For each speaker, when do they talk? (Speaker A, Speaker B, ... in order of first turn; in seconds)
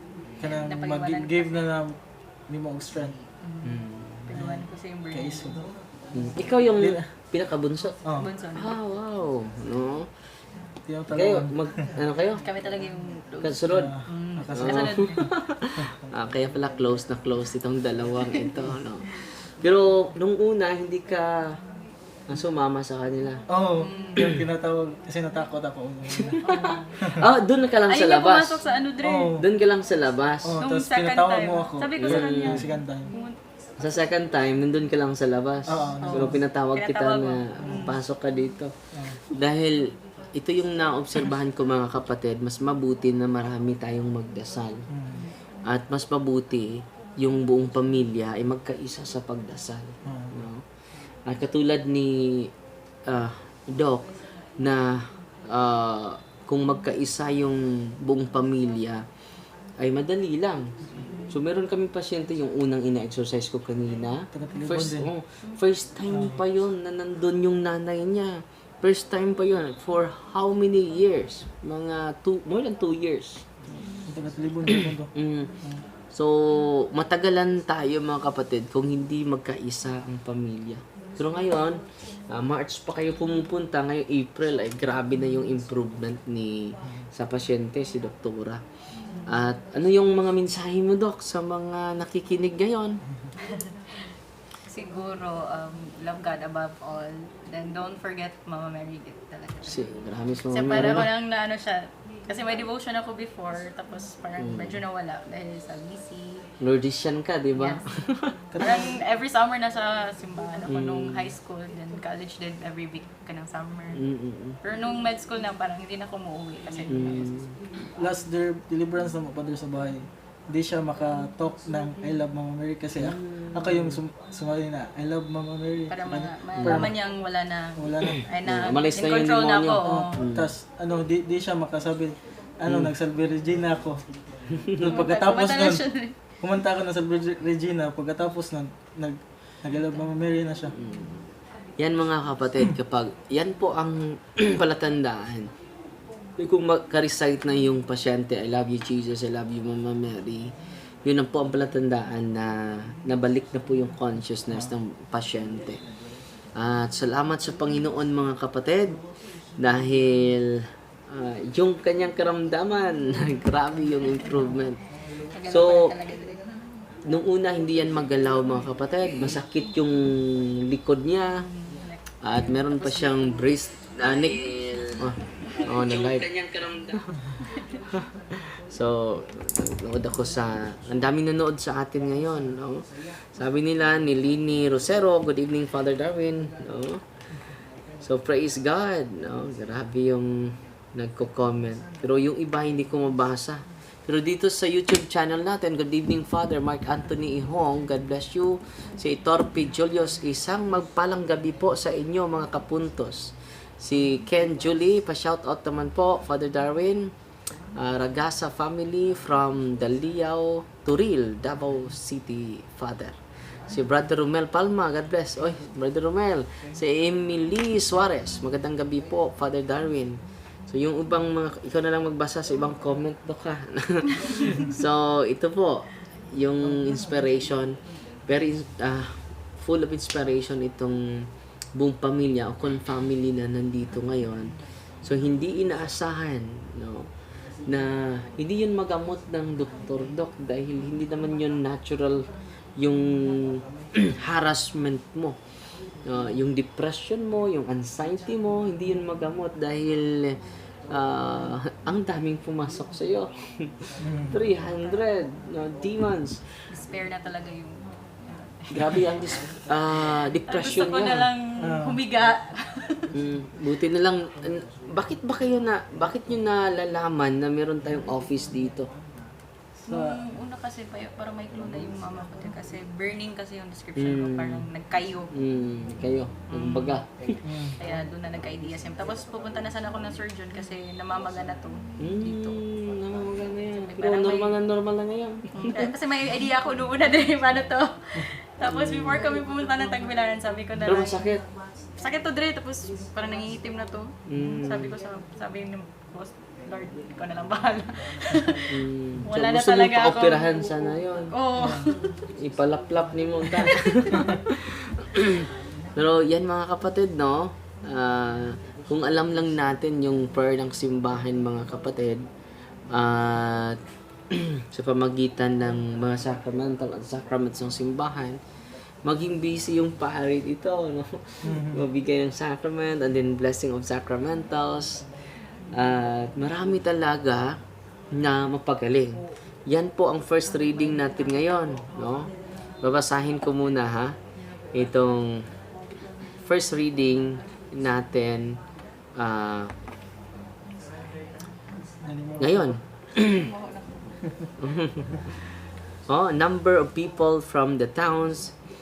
Speaker A: 0.4-3.2, 4.3-7.0, 8.0-8.3, 10.8-11.5, 13.7-15.1, 23.5-26.4, 29.0-29.4, 30.4-33.1, 35.7-36.4, 37.6-37.9, 38.9-39.2, 44.9-45.2, 50.0-50.4, 64.3-65.1, 66.1-66.3, 73.7-75.8, 108.5-109.0, 117.9-127.0, 127.8-128.2, 129.8-134.0, 134.8-135.8, 136.4-140.7, 254.0-254.4, 261.6-262.0, 269.8-270.2, 277.4-277.8, 301.6-301.9, 321.4-321.8, 342.0-342.8
Speaker B: 0.4-1.6, 3.4-5.5, 8.2-8.8, 12.4-15.3, 23.8-24.4, 26.4-27.0, 27.9-29.4, 30.6-34.0, 36.0-38.0, 93.5-94.1, 94.7-106.5, 107.5-107.8, 108.5-114.0, 114.6-117.3, 125.9-130.2, 134.8-136.2, 165.3-166.4, 171.3-174.4, 175.0-175.6, 256.7-259.0, 260.5-263.1, 269.9-275.3, 276.5-277.0, 277.8-282.6, 283.8-284.5, 285.5-291.2, 292.0-300.6, 301.3-302.2, 343.2-344.2
Speaker C: 3.6-4.3, 6.1-8.0, 8.5-10.1, 11.1-12.4, 13.4-13.9, 14.5-21.4, 22.3-23.4, 26.4-28.6, 29.4-30.6, 32.0-32.6, 33.8-44.8, 45.6-50.6, 51.2-52.5, 53.1-59.0, 59.8-60.7, 61.3-73.4, 74.7-75.5, 76.1-88.6, 89.2-93.0, 99.7-101.1, 104.4-104.8, 106.6-108.4, 110.7-111.3, 113.9-114.6, 116.9-117.5, 123.0-124.0, 126.6-126.9, 128.4-130.5, 132.7-132.9, 134.6-134.9, 140.7-141.2, 141.8-145.5, 146.4-150.5, 151.0-155.8, 156.6-159.0, 159.6-164.8, 165.4-165.9, 167.1-171.4, 172.2-177.4, 178.7-187.0, 188.0-207.1, 207.7-237.1, 237.6-245.3, 246.0-256.5, 258.7-261.3, 263.1-268.9, 274.0-274.6, 275.3-277.4, 282.0-285.8, 288.6-289.2, 290.9-291.4, 294.3-294.9, 298.7-301.3, 302.3-312.2, 312.9-313.8, 314.3-318.4, 319.0-325.1, 325.7-327.5, 328.1-332.3, 332.8-334.1, 334.7-335.4, 336.4-338.6, 339.1-339.7, 342.4-343.5, 344.6-345.5, 346.1-348.5